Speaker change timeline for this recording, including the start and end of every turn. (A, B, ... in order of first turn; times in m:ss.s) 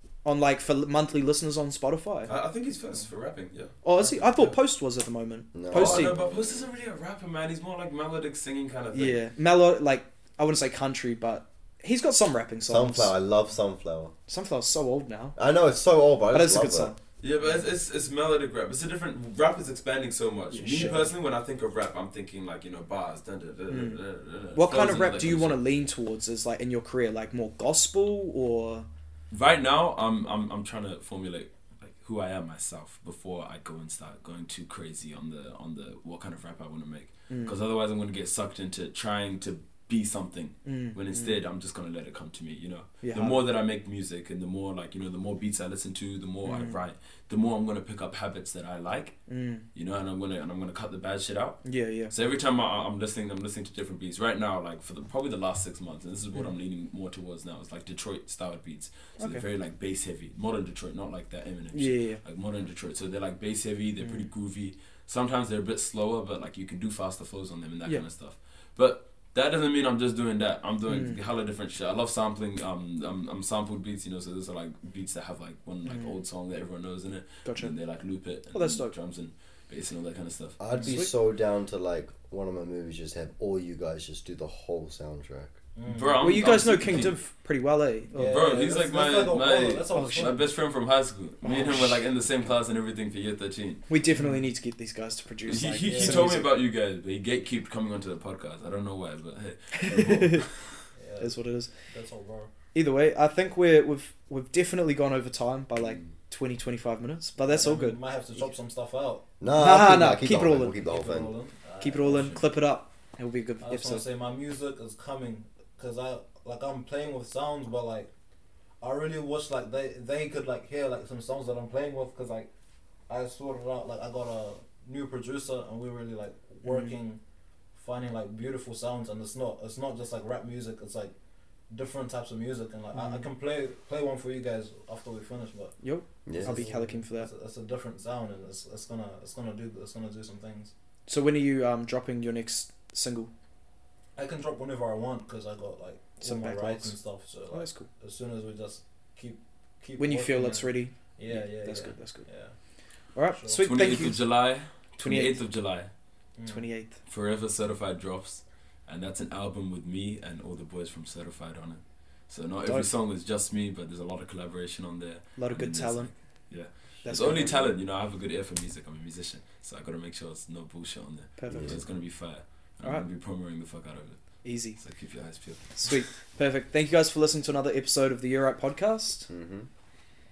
0:00.2-0:02.3 A
0:02.3-0:04.5 B
0:03.8-0:06.1 A
0:05.5-0:06.4 C
0:05.7-0:09.2 B
0:08.9-0:13.1 A
0:12.7-0:14.1 C
0:14.3-0:15.4 A
0:15.4-0:16.9 C
0:16.3-0:17.0 A
0:17.2-0:25.6 B
0:20.5-0:21.1 A
0:23.7-0:24.0 A
0:24.5-0:28.9 A
0:29.3-0:49.2 B
0:37.3-0:37.6 A
0:40.6-0:41.4 A
0:43.0-0:43.4 A
0:46.4-0:46.8 A
0:49.3-0:49.7 A
0:49.7-1:20.6 B
0:51.6-0:52.1 A
0:59.2-0:59.4 A
1:01.7-1:02.2 A
1:04.0-1:04.3 A
1:10.9-1:11.2 A
1:15.9-1:16.2 A
1:17.4-1:17.7 A
1:18.5-1:18.9 A
1:20.6-1:25.6 C
1:20.7-1:21.1 A
1:25.8-1:26.4 D
1:25.9-1:27.2 B
1:26.2-1:28.4 A
1:28.1-1:30.5 D
1:28.2-1:33.8 B
1:29.9-1:30.3 A
1:31.4-1:32.0 A
1:33.9-1:36.5 A
1:34.1-1:34.4 D
1:35.5-1:40.6 B
1:35.8-1:36.3 D
1:39.8-1:40.5 A
1:41.0-1:41.4 D
1:41.2-1:41.7 A
1:41.9-1:42.5 D
1:42.7-1:48.4 A
1:47.4-1:49.3 D
1:49.4-1:51.3 C
1:49.5-1:50.8 A
1:50.7-1:52.4 D
1:51.8-1:54.0 A
1:53.6-1:58.1 D
1:58.8-2:02.5 D
2:03.1-2:07.2 D
2:06.6-2:06.9 A
2:07.7-2:11.1 D
2:11.7-2:15.8 D
2:13.0-2:13.2 A
2:15.8-2:17.3 A
2:16.3-2:16.7 C
2:16.4-2:20.7 D
2:21.1-2:23.3 A
2:24.2-2:32.5 D
2:26.2-2:27.0 A
2:27.5-2:27.9 A
2:30.0-2:32.2 A
2:33.2-2:34.3 A
2:33.3-2:33.7 D
2:33.6-2:35.9 B
2:35.0-2:35.4 A
2:36.4-2:36.6 D
2:36.5-2:37.0 A
2:37.1-2:55.8 B
2:45.4-2:46.1 A
2:47.0-2:47.7 A
2:51.4-2:51.8 A
2:51.5-2:51.8 C
2:54.4-2:54.8 A
2:55.7-2:59.3 A
2:59.3-2:59.7 C